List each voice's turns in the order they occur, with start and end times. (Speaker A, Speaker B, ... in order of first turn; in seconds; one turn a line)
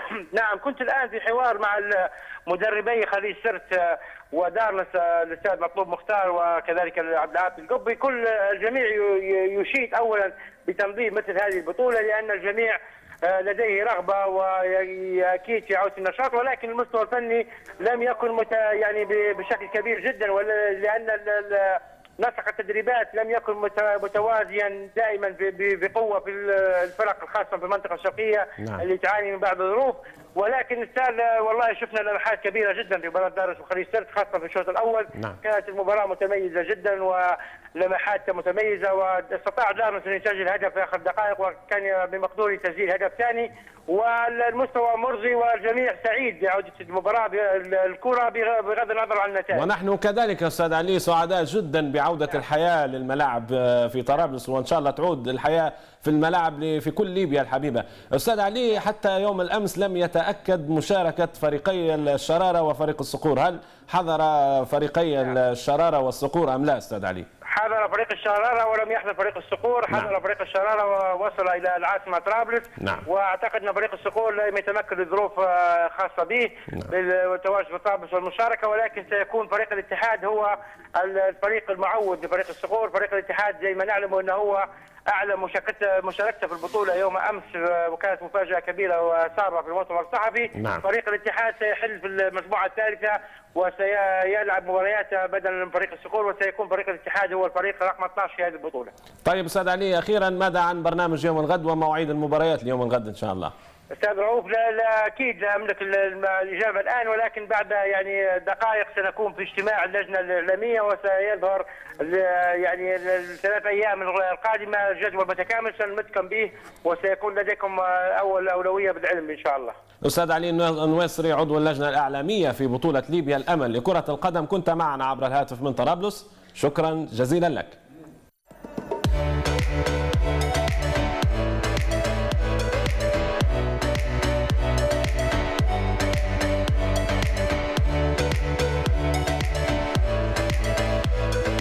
Speaker A: 0.3-49.6
Speaker B: 49.5-67.3
Speaker A: 67.5-98.9
Speaker B: 72.8-73.0
Speaker B: 90.6-90.8
Speaker B: 99.2-103.5
Speaker A: 104.0-119.8
Speaker B: 120.0-127.8